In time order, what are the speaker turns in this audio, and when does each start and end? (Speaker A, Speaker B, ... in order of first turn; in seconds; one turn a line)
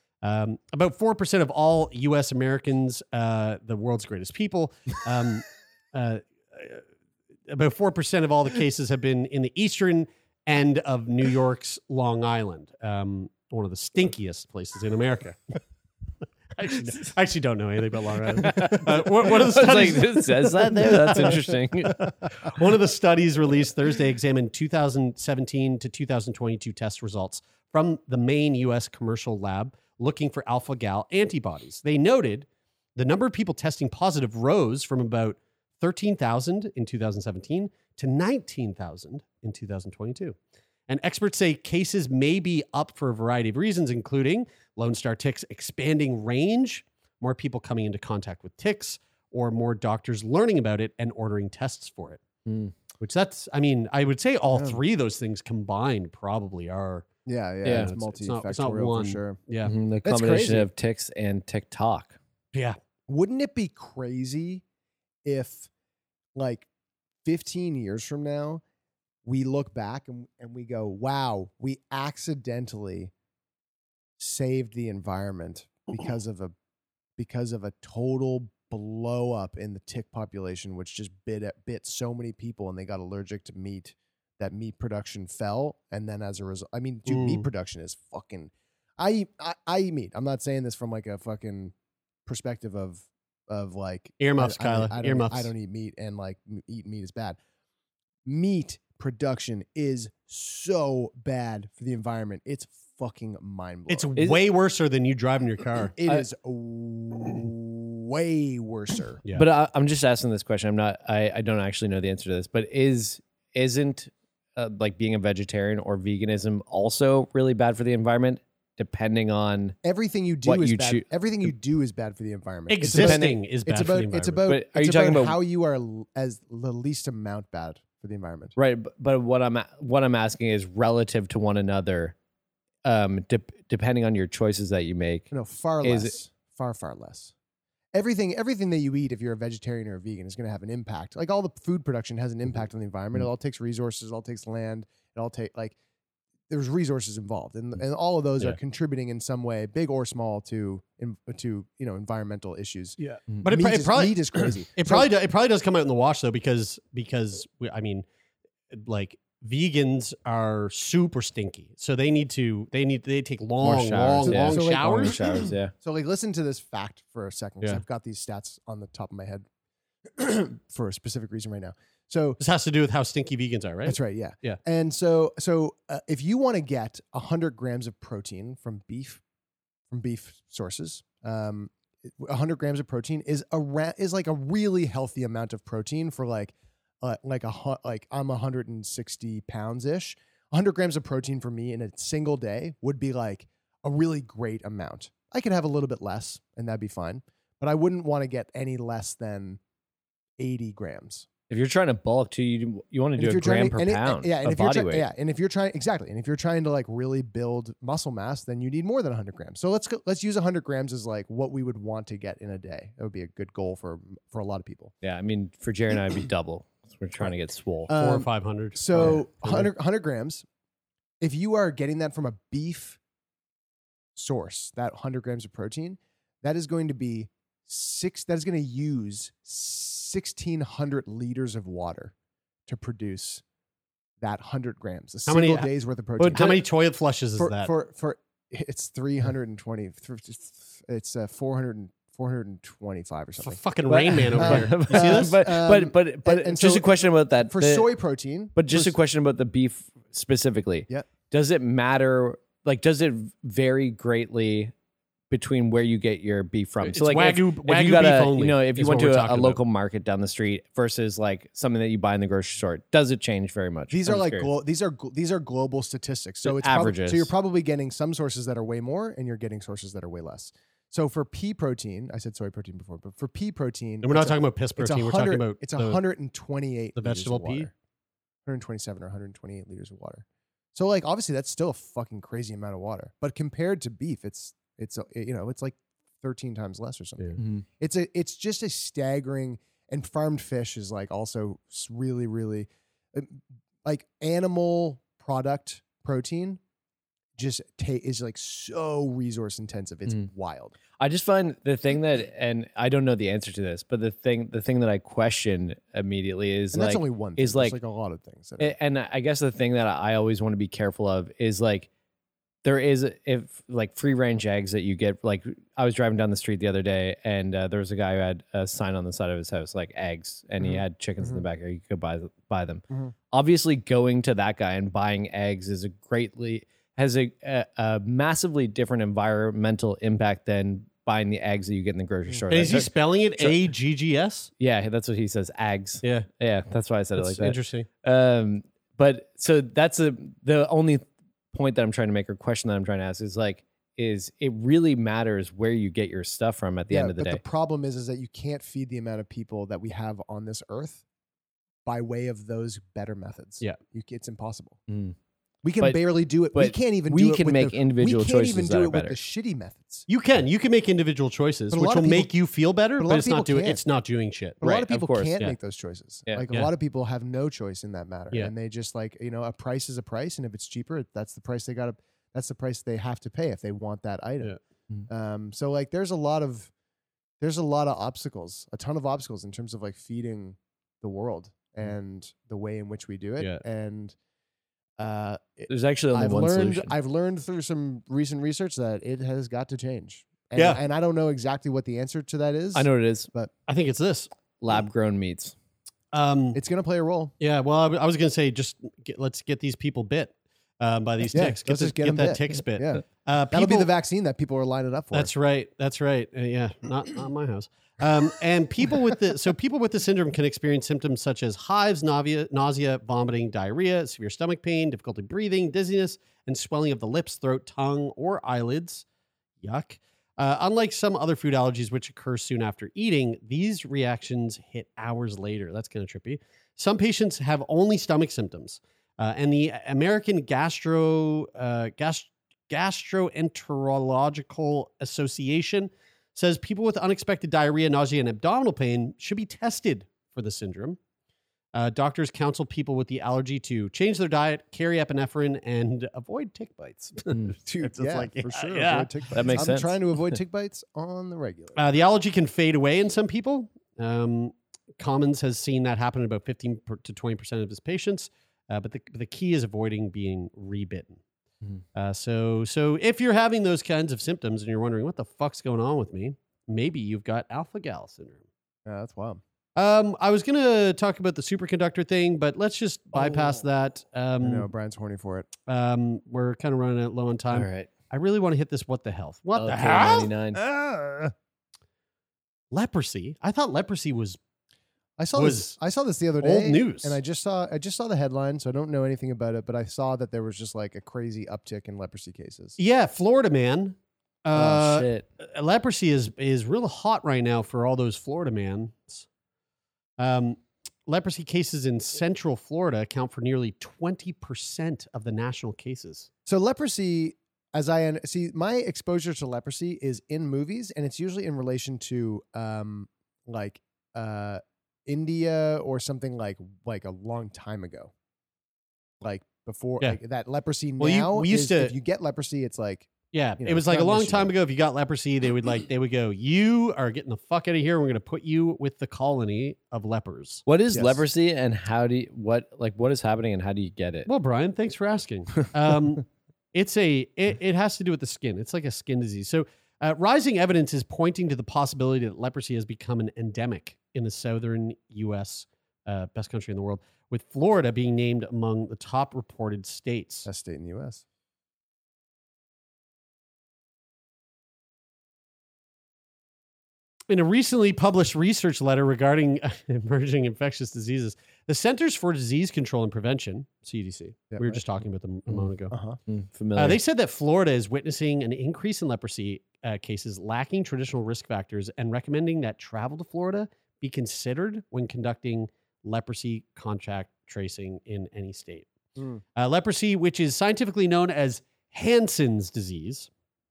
Speaker A: 0.2-6.8
Speaker A: 7.5-15.4
Speaker A: 16.6-21.4
Speaker B: 18.4-22.0
Speaker A: 22.4-40.3
Speaker A: 40.9-52.2
Speaker B: 52.5-52.7
Speaker A: 53.0-57.1
Speaker C: 54.5-54.8
Speaker C: 57.2-59.4
Speaker B: 57.6-57.9
Speaker A: 57.7-59.7
Speaker B: 59.6-62.2
Speaker C: 60.0-60.7
Speaker C: 63.1-64.6
Speaker C: 65.2-65.7
Speaker C: 66.3-66.7
Speaker C: 67.2-68.6
Speaker C: 69.2-73.1
Speaker C: 74.2-76.5
Speaker C: 77.2-91.7
Speaker A: 87.1-87.5
Speaker C: 92.2-97.4
Speaker A: 94.2-95.5
Speaker C: 98.2-104.1
Speaker A: 103.9-105.9
Speaker C: 106.0-109.2
Speaker B: 109.3-119.8
Speaker C: 119.8-128.6
Speaker B: 120.4-121.5
Speaker A: 122.7-124.4
Speaker B: 122.9-123.4
Speaker B: 124.5-125.4
Speaker B: 128.6-132.1
Speaker B: 132.8-135.3
Speaker C: 135.3-137.3
Speaker B: 135.8-136.2
Speaker C: 137.9-145.8
Speaker C: 146.5-155.1
Speaker A: 153.0-158.0
Speaker A: 158.7-165.2
Speaker B: 163.6-165.7
Speaker C: 164.2-169.4
Speaker C: 170.1-172.4
Speaker A: 172.4-174.6
Speaker C: 173.8-179.2
Speaker C: 179.9-199.6
Speaker C: 200.4-201.3
Speaker B: 201.5-205.1
Speaker C: 203.2-214.9
Speaker B: 215.0-217.9
Speaker C: 217.9-220.4
Speaker A: 217.9-219.7
Speaker C: 221.2-223.0
Speaker C: 224.2-232.1
Speaker C: 232.7-233.4
Speaker C: 234.2-236.6
Speaker A: 235.3-237.7
Speaker C: 237.4-243.6
Speaker A: 243.4-245.4
Speaker B: 243.9-247.9
Speaker C: 244.3-248.9
Speaker B: 248.5-254.7
Speaker B: 255.3-264.5
Speaker A: 256.8-259.6
Speaker C: 263.9-277.7
Speaker B: 266.4-267.3
Speaker A: 274.0-276.0
Speaker A: 277.0-277.7
Speaker C: 278.4-296.6
Speaker B: 287.4-287.6
Speaker C: 297.4-300.8
Speaker B: 301.0-307.8
Speaker C: 306.7-308.8
Speaker B: 308.6-311.9
Speaker B: 312.6-333.6
Speaker C: 320.6-321.4
Speaker C: 332.3-332.7
Speaker A: 332.5-334.5
Speaker B: 334.6-347.4
Speaker A: 337.1-337.9
Speaker C: 346.9-351.0
Speaker C: 351.8-354.8
Speaker B: 354.9-355.1
Speaker C: 355.6-360.1
Speaker B: 355.8-359.2
Speaker A: 360.1-364.6
Speaker C: 361.7-362.3
Speaker C: 363.0-363.8
Speaker C: 364.6-374.6
Speaker B: 364.6-365.4
Speaker C: 375.1-376.7
Speaker C: 377.4-384.1
Speaker C: 385.0-393.5
Speaker B: 385.7-386.9
Speaker A: 390.6-390.8
Speaker B: 392.7-393.3
Speaker A: 393.7-394.3
Speaker B: 394.6-395.5
Speaker A: 396.1-396.6
Speaker C: 396.5-397.3
Speaker A: 397.4-403.9
Speaker C: 401.3-405.3
Speaker A: 405.1-419.0
Speaker A: 419.6-441.0
Speaker A: 441.7-449.1
Speaker C: 447.6-451.8
Speaker B: 449.3-450.4
Speaker A: 451.8-461.2
Speaker A: 461.9-468.4
Speaker C: 468.9-469.4
Speaker A: 469.8-474.7
Speaker C: 474.4-475.5
Speaker A: 475.7-480.3
Speaker B: 477.5-477.9
Speaker B: 479.6-480.6
Speaker C: 480.5-481.3
Speaker A: 482.7-484.4
Speaker C: 485.2-492.8
Speaker A: 485.3-485.8
Speaker A: 486.4-487.2
Speaker A: 492.8-499.2
Speaker B: 494.5-495.2
Speaker A: 500.2-506.3
Speaker C: 506.4-518.1
Speaker C: 519.2-524.5
Speaker A: 521.0-521.9
Speaker A: 523.3-530.6
Speaker B: 530.6-534.3
Speaker C: 530.9-531.2
Speaker A: 534.3-550.5
Speaker C: 550.5-551.2
Speaker A: 557.3-565.9
Speaker C: 564.5-564.8
Speaker C: 565.9-566.2
Speaker B: 566.3-567.0
Speaker A: 566.8-578.9
Speaker C: 579.1-579.4
Speaker A: 579.5-583.3